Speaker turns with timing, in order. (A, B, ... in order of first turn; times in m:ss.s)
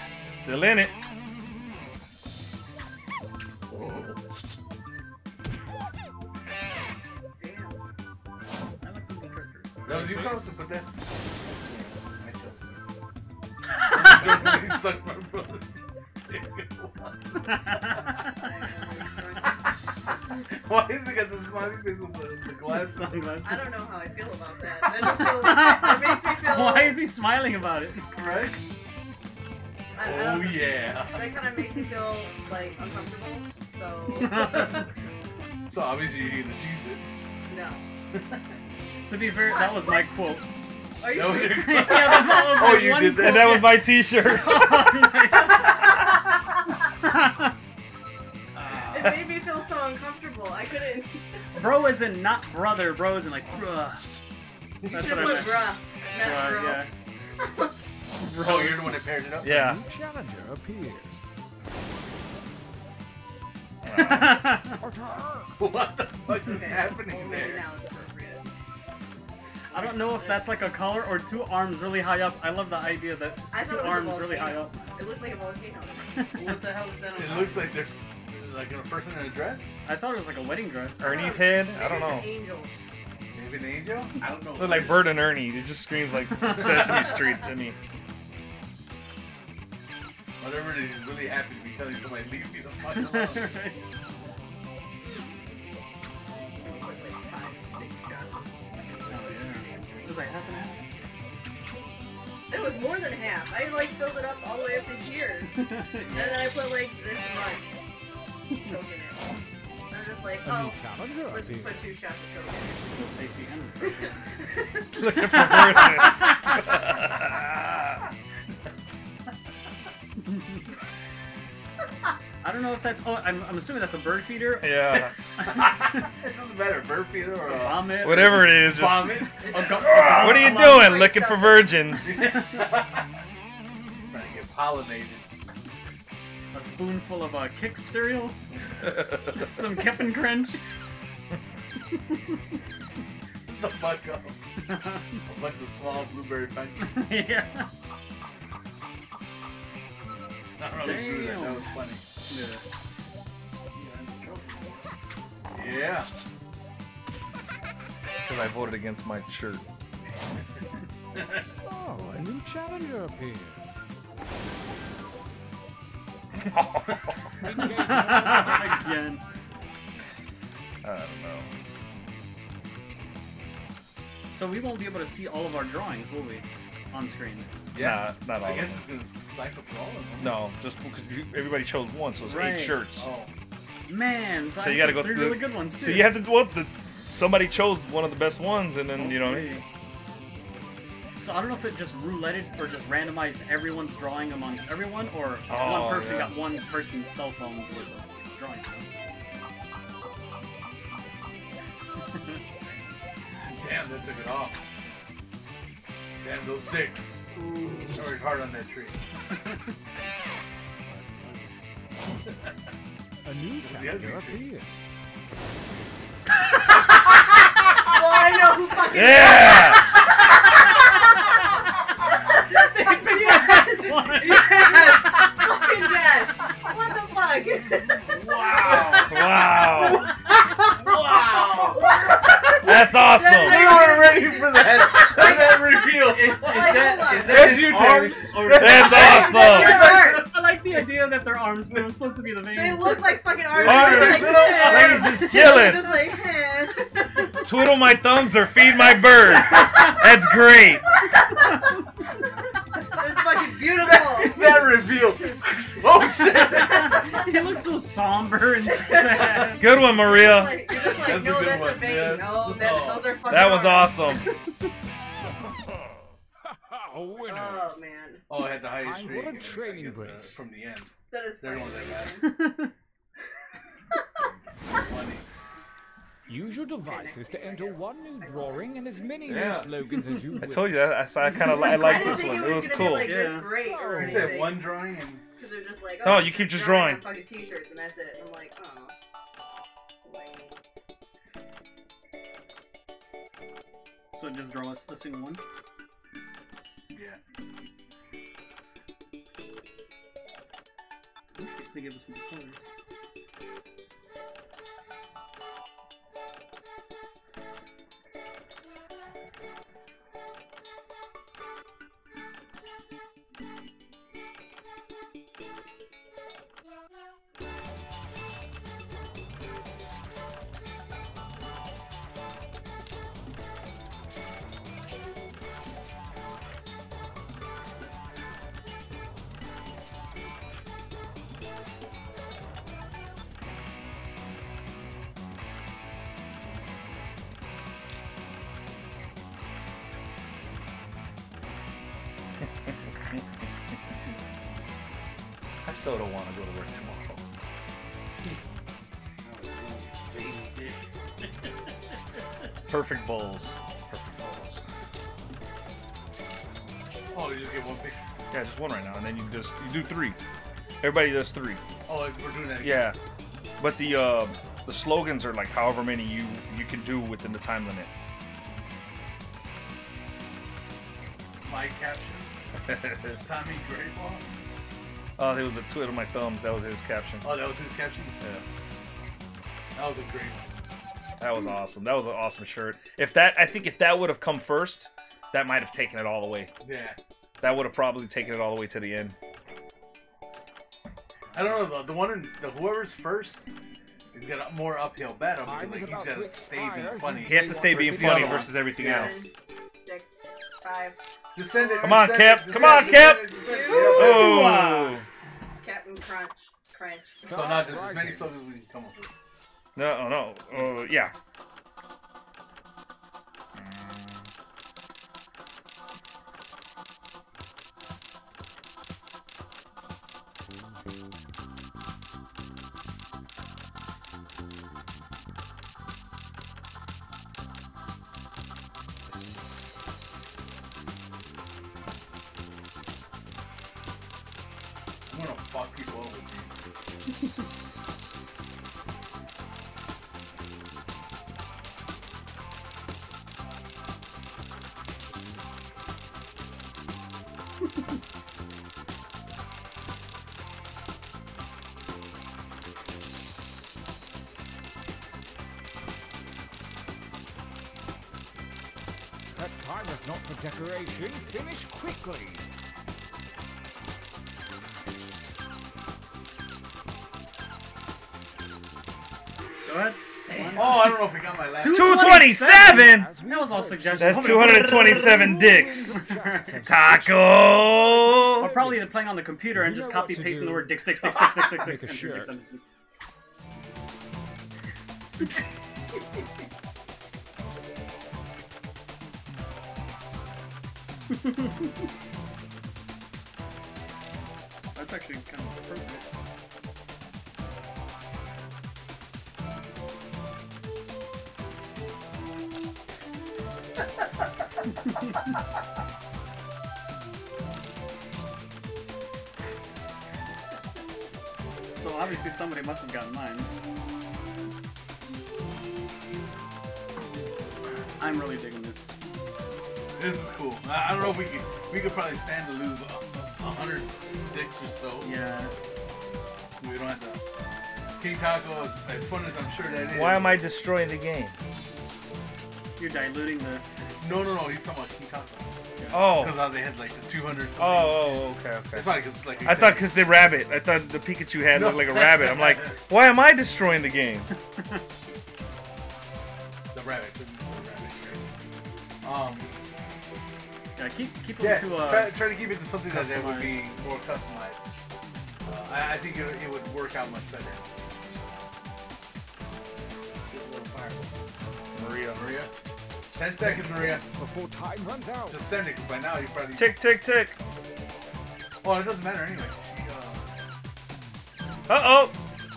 0:00.3-0:00.9 A
0:07.4-0:07.8 B
0:08.8-0:10.4 C
0:09.9-0:10.9 D
0:10.0-0:10.3 E
0:11.6-0:12.8 E
0:12.2-0:12.5 D
0:13.9-0:18.0 D
0:17.7-0:18.0 C
0:18.2-0:19.7 B
0:19.4-0:19.7 D
0:20.5-0:23.4 D
0:22.6-0:23.8 C
0:23.4-0:27.0 B
0:25.0-0:28.1 C
0:28.2-0:28.6 D
0:29.9-0:34.6 B
0:30.0-0:31.3 D
0:34.2-0:34.8 C
0:35.7-0:37.0 D
0:37.5-0:37.9 B
0:38.1-0:38.4 D
0:39.1-0:40.5 C
0:39.5-0:40.0 B
0:41.0-0:42.3 B
0:41.1-0:43.6 D
0:41.3-0:45.9 C
0:43.1-0:45.1 A
0:47.0-0:47.6 C
0:48.6-0:49.2 E
0:48.8-0:51.2 B
0:51.6-0:54.1 C
0:54.8-0:55.6 D
0:54.9-0:56.9 C
0:54.9-0:56.9 B
0:57.4-0:57.7 B
0:58.2-0:59.1 C
0:58.3-0:59.5 D
0:59.4-0:59.8 A
0:59.4-1:01.3 F
1:03.8-1:04.5 A
1:03.9-1:04.8 C
1:04.7-1:05.6 F
1:05.6-1:07.7 D
1:06.4-1:08.5 B
1:09.7-1:14.9 C
1:09.8-1:10.5 E
1:13.5-1:16.4 B
1:16.3-1:17.8 E
1:17.1-1:19.8 D
1:19.8-1:21.2 C
1:21.0-1:22.8 B
1:21.0-1:22.3 A
1:23.3-1:24.2 D
1:24.2-1:25.2 E
1:24.6-1:27.8 A
1:26.3-1:26.9 C
1:30.4-1:33.5 D
1:32.9-1:33.8 C
1:36.6-1:40.4 B
1:39.1-1:40.8 C
1:42.5-1:45.5 B
1:45.6-1:46.5 C
1:46.1-1:47.8 B
1:48.6-1:49.3 B
1:49.9-1:52.9 B
1:50.4-1:51.9 F
1:52.9-1:54.2 C
1:54.0-1:54.9 B
1:54.9-1:57.9 A
1:55.1-1:56.2 C
2:02.4-2:06.0 C
2:04.6-2:05.1 A
2:05.4-2:09.8 D
2:07.4-2:08.7 C
2:08.0-2:09.3 A
2:09.2-2:11.0 C
2:09.4-2:11.8 B
2:09.8-2:12.2 A
2:12.0-2:13.0 D
2:14.1-2:15.2 D
2:16.5-2:20.6 C
2:23.5-2:24.4 D
2:24.6-2:25.0 C
2:25.3-2:27.1 D
2:26.8-2:27.7 C
2:30.6-2:32.0 D
2:30.7-2:32.6 C
2:33.7-2:34.9 E
2:35.6-2:36.1 D
2:38.2-2:39.6 A
2:41.6-2:43.8 F
2:46.4-2:47.2 A
2:47.4-2:48.9 F
2:47.8-2:49.2 C
2:50.8-2:51.5 A
2:54.3-2:57.5 C
2:57.7-3:00.4 D
2:57.8-2:58.8 A
3:00.2-3:03.1 A
3:02.2-3:02.8 C
3:03.0-3:03.3 D
3:03.9-3:06.1 C
3:04.6-3:09.6 A
3:09.0-3:09.6 C
3:11.2-3:18.9 C
3:15.5-3:16.4 A
3:23.5-3:24.6 D
3:26.2-3:27.2 D
3:27.9-3:29.0 D
3:30.8-3:31.6 E
3:32.2-3:32.5 D
3:33.2-3:34.8 F
3:33.6-3:34.5 D
3:37.9-3:41.3 B
3:38.9-3:39.9 A
3:42.5-3:44.9 C
3:42.8-3:49.2 B
3:48.1-3:49.1 D
3:49.0-3:50.1 A
3:50.6-3:51.9 D
3:51.2-3:57.8 B
3:52.6-3:53.9 A
3:53.3-3:59.8 D
3:55.0-3:58.8 E
3:58.5-3:59.9 A
3:58.6-4:00.3 B
3:59.0-4:03.2 C
4:02.5-4:07.3 B
4:03.5-4:05.3 D
4:03.6-4:06.0 A
4:04.3-4:05.1 C
4:07.4-4:10.8 A
4:11.1-4:11.4 B
4:12.9-4:14.8 B
4:13.6-4:17.2 D
4:16.5-4:19.8 C
4:18.7-4:24.2 B
4:19.6-4:20.6 A
4:20.8-4:23.3 D
4:23.2-4:24.3 A
4:26.5-4:27.8 F
4:27.2-4:28.2 B
4:28.3-4:32.3 D
4:28.6-4:30.2 F
4:31.1-4:32.4 B
4:32.2-4:32.7 C
4:34.7-4:35.2 D
4:36.3-4:40.9 F
4:36.8-4:39.1 B
4:39.3-4:39.7 A
4:40.4-4:43.2 A
4:41.3-4:43.7 C
4:41.4-4:48.9 B
4:43.4-4:44.6 F
4:44.0-4:45.2 D
4:46.0-4:47.1 A
4:50.0-4:50.6 B
4:54.1-4:55.4 C
4:56.9-4:57.2 D
5:01.4-5:02.7 C
5:45.6-5:47.2 A
5:49.2-5:50.8 E
5:52.7-5:54.6 A
5:57.1-5:58.1 D
5:58.3-6:00.2 A
6:00.8-6:01.6 A
6:01.9-6:02.9 D
6:02.6-6:03.0 A
6:03.6-6:07.9 A
6:11.4-6:12.3 D
6:12.7-6:13.1 A
6:13.1-6:14.3 D
6:15.2-6:17.4 A
6:17.2-6:18.2 D
6:19.8-6:20.5 D
6:21.2-6:26.5 A
6:26.6-6:27.0 D
6:27.4-6:29.2 A
6:31.3-6:31.7 E
6:31.3-6:33.4 D
6:34.1-6:39.3 D
6:35.4-6:38.6 F
6:37.2-6:39.3 A
6:38.6-6:41.0 B
6:41.4-6:44.4 D
6:41.5-6:44.3 B
6:41.8-6:43.3 A
6:43.6-6:45.0 C
6:43.9-6:45.1 A
6:45.6-6:47.4 B
6:47.2-6:48.4 F
6:47.2-6:49.1 D
6:49.8-6:51.1 A
6:53.6-6:54.2 A
7:15.1-7:16.6 D
7:39.3-7:42.4 F
7:49.6-7:51.0 C
7:50.3-7:50.9 E
7:50.6-7:52.1 D
7:51.6-7:56.7 C
7:51.6-7:53.1 A
7:52.2-8:02.3 F
7:54.0-7:56.0 A
7:56.6-7:58.5 A
7:58.4-8:02.6 C
8:14.8-8:16.0 C
8:31.8-8:33.5 C
8:38.0-8:38.9 C
8:40.0-8:45.2 D
8:45.0-8:45.5 C
8:46.6-8:47.2 D
8:48.0-8:50.4 D
8:49.9-8:51.4 A
8:52.8-8:53.6 C
8:54.0-8:59.9 D
8:55.8-8:56.1 C
8:55.9-8:56.5 A
8:57.6-9:04.3 A
9:01.5-9:02.8 D
9:06.7-9:08.2 D
9:09.0-9:09.6 D
9:10.8-9:13.7 C
9:11.4-9:14.7 D
9:15.5-9:17.6 D
9:20.3-9:21.2 E
9:21.7-9:22.3 A
9:22.1-9:22.5 D
9:23.1-9:24.1 D
9:23.4-9:25.5 F
9:25.3-9:26.7 D
9:26.6-9:27.4 A
9:28.6-9:30.3 D
9:31.7-9:32.2 A